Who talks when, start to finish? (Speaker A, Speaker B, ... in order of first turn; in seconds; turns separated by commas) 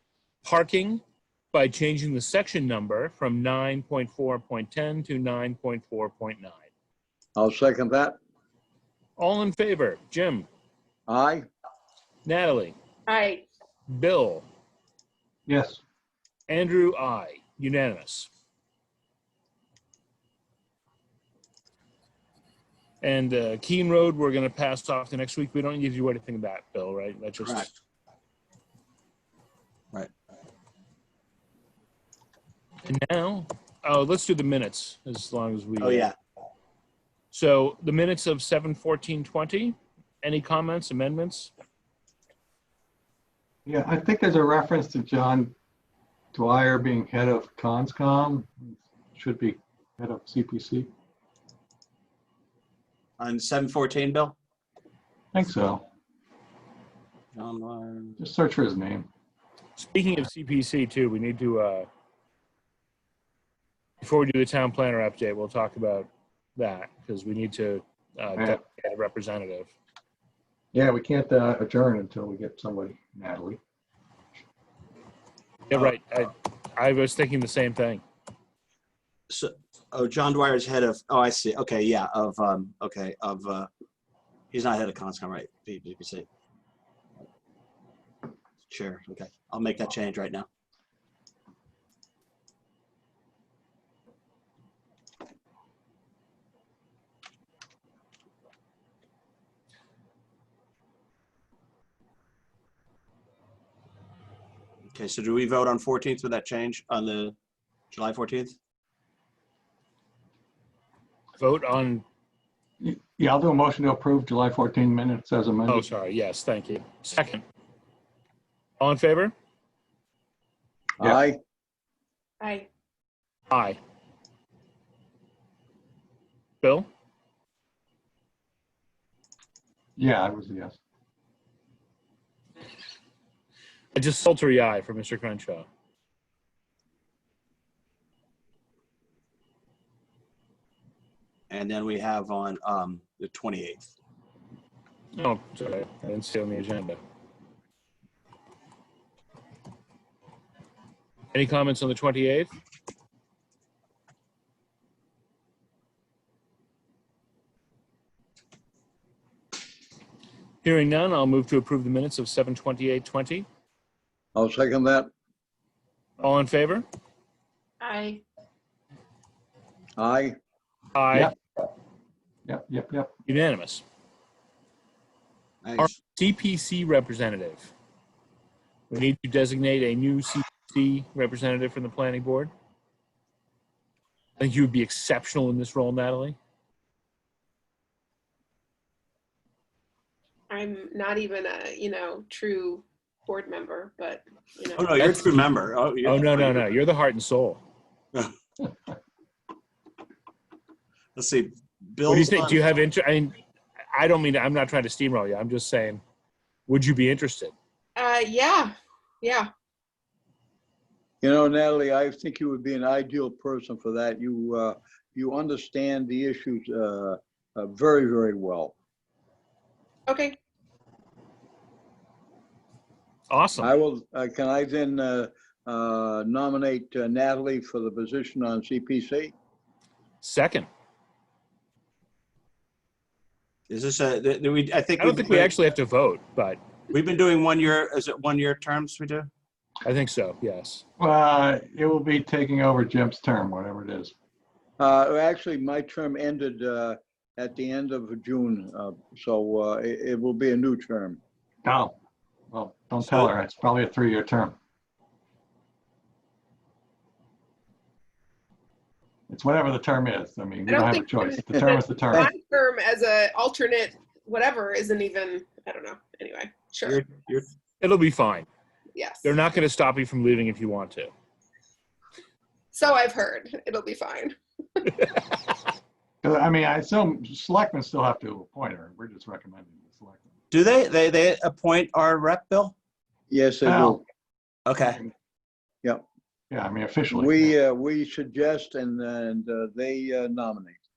Speaker A: 0.4-1.0, Speaker A: 1.5-6.6, Speaker B: 7.4-8.2, Speaker A: 9.2-10.5, Speaker B: 11.1-11.4, Speaker A: 12.2-12.8, Speaker C: 13.1-13.5, Speaker A: 13.9-14.5, Speaker D: 15.5-15.8, Speaker A: 16.5-18.3, Speaker A: 23.0-27.8, Speaker E: 27.4-27.7, Speaker A: 32.9-36.1, Speaker E: 35.8-36.1, Speaker A: 37.3-41.5, Speaker D: 43.6-45.5, Speaker D: 46.3-50.9, Speaker E: 53.2-54.4, Speaker D: 55.3-55.8, Speaker E: 57.4-58.2, Speaker D: 58.2-59.1, Speaker A: 59.8-61.9, Speaker A: 64.0-69.7, Speaker D: 70.7-73.6, Speaker A: 75.7-78.0, Speaker E: 79.3-83.7, Speaker E: 84.5-86.3, Speaker E: 88.7-90.5, Speaker E: 104.9-107.4, Speaker E: 107.9-108.5, Speaker A: 111.4-112.0, Speaker D: 112.8-115.8, Speaker A: 115.7-117.4, Speaker A: 118.8-119.3, Speaker B: 121.0-121.4, Speaker C: 122.4-122.7, Speaker A: 123.5-123.8, Speaker A: 126.6-126.9, Speaker D: 130.0-130.8, Speaker A: 133.9-135.7, Speaker E: 141.5-143.9, Speaker A: 145.2-147.0, Speaker A: 151.3-152.5, Speaker A: 160.6-163.5, Speaker B: 164.3-165.1, Speaker A: 166.2-166.8, Speaker C: 167.8-168.2, Speaker B: 170.0-170.3, Speaker A: 170.9-171.3, Speaker D: 172.5-173.1, Speaker A: 173.3-173.8, Speaker E: 175.6-175.9, Speaker A: 175.8-177.7, Speaker A: 178.9-182.5, Speaker A: 184.4-186.4, Speaker C: 190.5-195.2, Speaker E: 194.8-196.7, Speaker A: 196.0-197.6, Speaker E: 201.2-202.7, Speaker A: 202.1-203.4, Speaker A: 203.9-206.0, Speaker A: 206.7-207.5, Speaker C: 208.0-209.5, Speaker B: 211.2-218.7, Speaker C: 220.1-220.4, Speaker A: 223.3-223.8, Speaker B: 223.6-229.3, Speaker A: 230.2-230.7, Speaker E: 233.7-235.5, Speaker A: 235.0-236.6, Speaker E: 236.9-239.3, Speaker A: 239.8-240.8, Speaker D: 241.0-244.1, Speaker B: 244.8-251.2, Speaker D: 251.6-251.9, Speaker D: 252.5-254.6, Speaker D: 259.3-262.3, Speaker C: 260.7-267.0, Speaker E: 266.9-267.5, Speaker A: 267.8-268.5, Speaker C: 268.9-269.3, Speaker A: 269.2-271.1, Speaker C: 272.7-275.1, Speaker D: 276.2-280.3, Speaker E: 280.5-282.8, Speaker B: 283.3-284.0, Speaker D: 283.7-284.0, Speaker E: 284.7-285.0, Speaker D: 286.5-287.5, Speaker B: 287.1-290.8